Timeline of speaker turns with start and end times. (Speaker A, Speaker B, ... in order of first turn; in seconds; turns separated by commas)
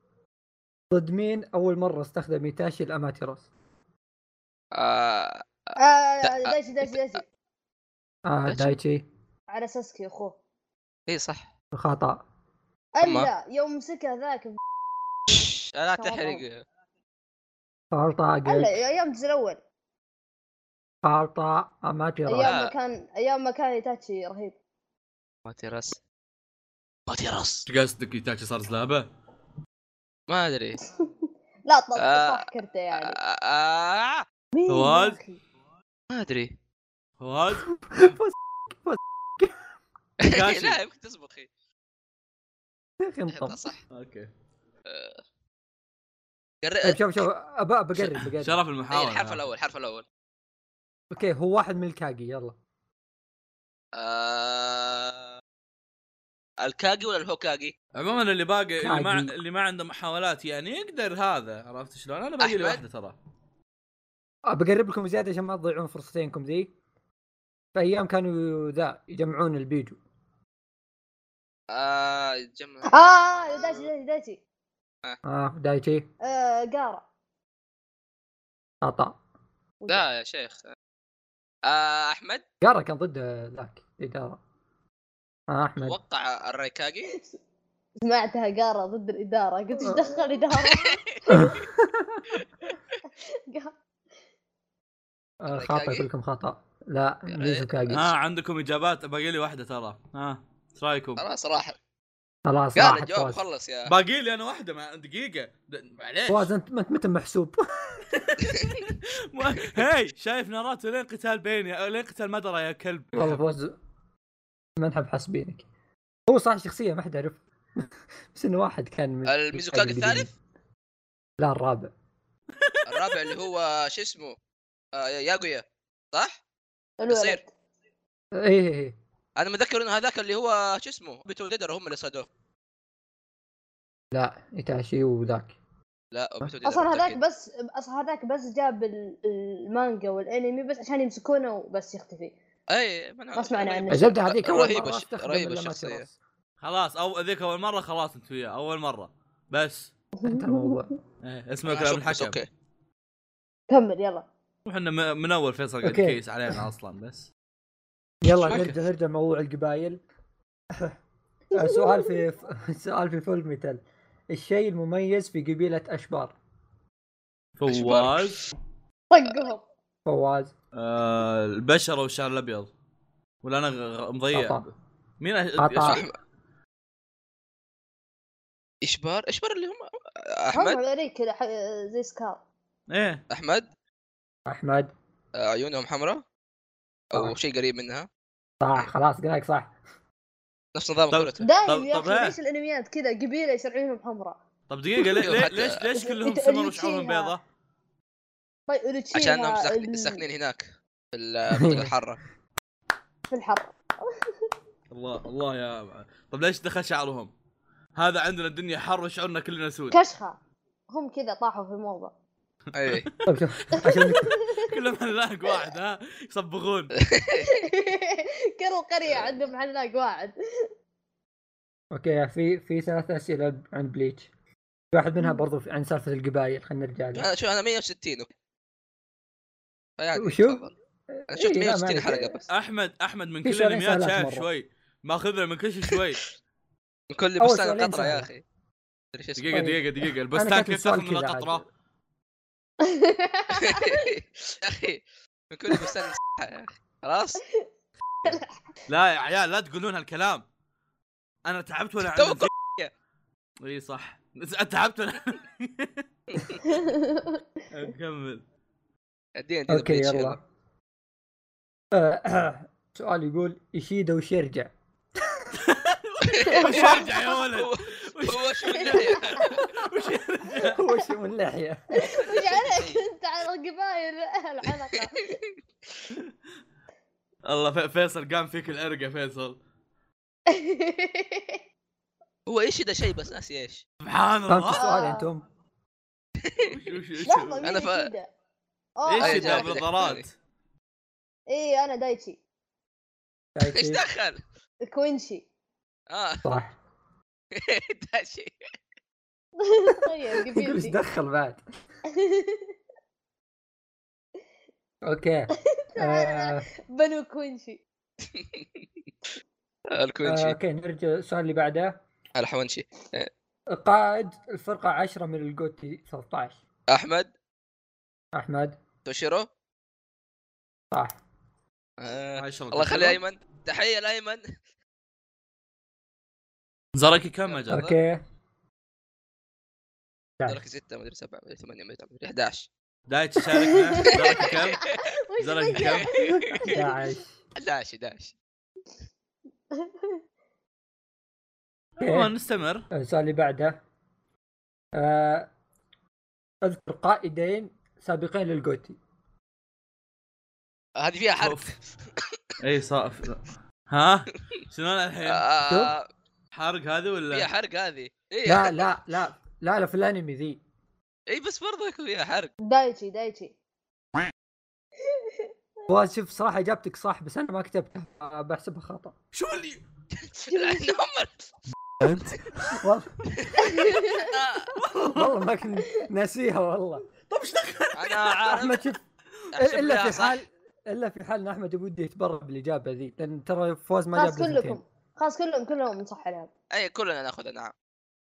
Speaker A: 0.9-3.5, Speaker B: 4.7-6.9, Speaker C: 5.8-7.2, Speaker A: 8.2-9.1, Speaker B: 8.5-8.8, Speaker C: 9.5-10.4, Speaker B: 11.1-11.4, Speaker A: 11.7-12.2, Speaker C: 12.9-14.6, Speaker B: 13.0-13.3, Speaker B: 15.3-16.6, Speaker C: 16.0-16.4, Speaker A: 17.9-18.7, Speaker C: 18.4-19.6, Speaker A: 21.0-22.6, Speaker C: 22.3-24.5, Speaker B: 22.4-22.7, Speaker B: 25.4-26.0, Speaker B: 27.1-27.7, Speaker D: 27.7-29.1, Speaker B: 30.3-30.9, Speaker C: 31.6-33.1, Speaker B: 32.0-34.2, Speaker C: 34.5-35.4, Speaker D: 34.7-35.2, Speaker B: 36.1-36.5, Speaker D: 37.2-37.7, Speaker A: 37.8-39.5, Speaker B: 40.2-41.5, Speaker D: 40.2-40.8, Speaker A: 43.0-43.6, Speaker B: 43.3-43.8, Speaker D: 43.9-44.3, Speaker B: 44.9-45.2, Speaker B: 46.6-47.1, Speaker A: 46.8-48.6, Speaker D: 48.2-49.4, Speaker B: 48.9-50.0, Speaker A: 51.1-52.5, Speaker B: 54.0-55.3, Speaker B: 56.6-57.7, Speaker D: 57.9-63.1, Speaker A: 58.8-59.3, Speaker B: 62.4-62.8, Speaker A: 64.5-66.7, Speaker A: 67.7-70.0, Speaker B: 71.7-72.9, Speaker C: 72.9-74.4, Speaker A: 75.2-76.1, Speaker C: 76.2-77.0, Speaker A: 78.8-79.2, Speaker B: 79.9-80.7, Speaker B: 81.7-82.4, Speaker A: 82.6-84.4, Speaker A: 85.5-86.0, Speaker B: 85.8-87.1, Speaker C: 87.1-87.4, Speaker C: 88.0-91.5, Speaker A: 89.8-90.2, Speaker B: 90.6-91.5, Speaker A: 91.3-92.3, Speaker C: 93.5-93.7, Speaker A: 95.4-98.1, Speaker B: 95.5-96.1, Speaker B: 97.3-98.0, Speaker D: 97.9-101.2, Speaker B: 101.2-101.8, Speaker A: 102.5-103.4, Speaker B: 102.7-103.9, Speaker D: 103.9-106.5, Speaker A: 106.3-108.0, Speaker D: 108.1-113.4, Speaker B: 108.4-108.8, Speaker A: 113.2-113.8, Speaker A: 114.8-115.6, Speaker A: 116.3-120.3, Speaker B: 119.2-120.3, Speaker A: 121.4-121.9, Speaker D: 122.6-123.2, Speaker B: 122.8-124.3, Speaker B: 124.9-126.4, Speaker C: 127.0-127.5, Speaker B: 127.1-127.4, Speaker A: 128.3-128.9, Speaker B: 129.4-132.3, Speaker A: 134.1-135.6, Speaker B: 136.1-137.2, Speaker C: 136.6-142.3, Speaker B: 142.7-146.1, Speaker C: 143.3-144.1, Speaker A: 143.9-146.2, Speaker D: 146.6-149.9, Speaker C: 150.2-150.9, Speaker A: 150.2-150.9, Speaker D: 151.2-152.4, Speaker B: 151.7-152.5, Speaker C: 153.7-154.2, Speaker D: 154.7-157.3, Speaker A: 155.8-156.6, Speaker A: 158.2-160.0, Speaker D: 158.5-158.7, Speaker C: 161.5-162.1, Speaker A: 161.5-166.3, Speaker D: 167.6-168.4, Speaker B: 167.7-168.4, Speaker C: 169.1-169.6, Speaker A: 170.1-170.5, Speaker D: 170.7-172.7, Speaker D: 173.4-176.1, Speaker A: 174.3-174.6, Speaker A: 175.6-176.0, Speaker B: 175.8-176.2, Speaker B: 178.8-180.8, Speaker C: 180.5-182.4, Speaker D: 182.9-183.2, Speaker B: 183.3-183.7, Speaker A: 184.5-184.9, Speaker B: 185.4-186.2, Speaker B: 187.1-188.1, Speaker A: 188.6-189.7, Speaker B: 190.7-191.5, Speaker D: 191.1-192.4, Speaker C: 191.4-194.4, Speaker D: 194.7-197.4, Speaker B: 195.2-195.8, Speaker C: 195.9-197.3, Speaker C: 198.7-200.2, Speaker B: 199.1-202.2, Speaker A: 201.5-201.9, Speaker C: 203.3-204.1, Speaker D: 204.9-207.3, Speaker D: 207.9-210.0, Speaker C: 209.9-210.4, Speaker C: 210.9-212.1, Speaker B: 212.7-213.1, Speaker D: 212.8-213.2, Speaker A: 213.2-214.4, Speaker C: 213.7-214.7, Speaker D: 214.6-216.9, Speaker B: 217.0-217.5, Speaker C: 217.4-220.7, Speaker A: 221.9-224.3, Speaker A: 224.9-227.3, Speaker B: 227.1-228.3, Speaker B: 230.0-230.7, Speaker A: 230.1-230.6, Speaker A: 231.1-232.4, Speaker B: 231.3-232.4, Speaker D: 232.5-236.2, Speaker A: 233.4-234.5, Speaker B: 237.1-238.4, Speaker A: 237.4-238.3, Speaker B: 239.1-239.6, Speaker D: 239.3-241.6, Speaker A: 239.5-241.6, Speaker C: 242.8-244.0, Speaker B: 243.6-247.4, Speaker D: 248.9-250.4, Speaker D: 251.4-252.5, Speaker B: 252.1-252.9, Speaker D: 253.6-256.0, Speaker B: 256.3-256.6, Speaker C: 256.6-257.4, Speaker D: 257.7-258.4, Speaker B: 259.4-260.4, Speaker A: 259.7-260.4, Speaker A: 261.9-264.7, Speaker D: 265.6-270.8, Speaker B: 266.2-269.6, Speaker C: 266.5-267.1, Speaker C: 268.8-269.6, Speaker A: 270.7-271.8, Speaker C: 272.0-275.3, Speaker B: 272.0-273.0, Speaker B: 274.9-275.5, Speaker D: 277.4-279.6, Speaker C: 280.5-281.6, Speaker B: 282.4-283.8, Speaker D: 284.0-285.1, Speaker A: 284.5-285.4, Speaker C: 284.7-285.3, Speaker B: 286.4-286.7, Speaker D: 286.6-287.7, Speaker C: 287.2-288.3, Speaker B: 287.6-288.1, Speaker C: 289.0-289.8, Speaker D: 289.1-290.3, Speaker B: 289.2-290.3, Speaker C: 291.5-292.4, Speaker A: 293.5-294.0, Speaker B: 293.6-294.4, Speaker C: 294.8-295.4, Speaker B: 296.1-296.4, Speaker A: 296.4-296.7, Speaker B: 297.5-298.6, Speaker C: 299.6-301.0, Speaker A: 300.5-301.6, Speaker C: 302.1-302.7, Speaker A: 305.0-306.7, Speaker C: 305.8-307.8, Speaker B: 308.3-308.8, Speaker B: 309.9-310.6, Speaker A: 310.2-312.0, Speaker B: 312.4-313.3, Speaker A: 313.7-316.6, Speaker B: 316.9-317.3, Speaker A: 318.3-318.8, Speaker B: 319.0-319.5, Speaker A: 320.9-321.2, Speaker B: 322.0-324.4, Speaker D: 322.4-323.2, Speaker D: 326.9-327.9, Speaker B: 327.5-327.9, Speaker A: 327.7-328.2, Speaker B: 330.4-332.7, Speaker D: 333.1-336.2, Speaker C: 333.7-337.0, Speaker B: 335.8-336.6, Speaker A: 336.3-337.3, Speaker B: 337.6-338.3, Speaker C: 339.7-340.2, Speaker D: 342.0-342.8, Speaker A: 342.0-342.3, Speaker A: 342.9-343.8, Speaker A: 344.9-345.5, Speaker A: 346.6-349.0, Speaker B: 351.0-352.2, Speaker D: 351.4-351.7, Speaker D: 352.6-355.4, Speaker B: 355.2-356.1, Speaker A: 355.7-355.9, Speaker D: 356.5-357.5, Speaker B: 357.3-358.9, Speaker A: 358.4-360.6, Speaker B: 361.3-362.5, Speaker C: 362.6-363.5, Speaker A: 365.9-369.1, Speaker D: 369.3-369.8, Speaker B: 370.2-371.5, Speaker C: 370.5-371.0, Speaker A: 372.0-373.1, Speaker D: 372.1-372.4, Speaker B: 373.3-374.7, Speaker C: 373.6-374.3, Speaker D: 374.8-375.4, Speaker A: 375.0-377.1, Speaker D: 377.3-378.4, Speaker B: 377.9-378.8, Speaker A: 378.4-379.0, Speaker B: 379.5-380.4, Speaker A: 379.6-384.8, Speaker C: 384.1-386.5, Speaker B: 386.7-387.7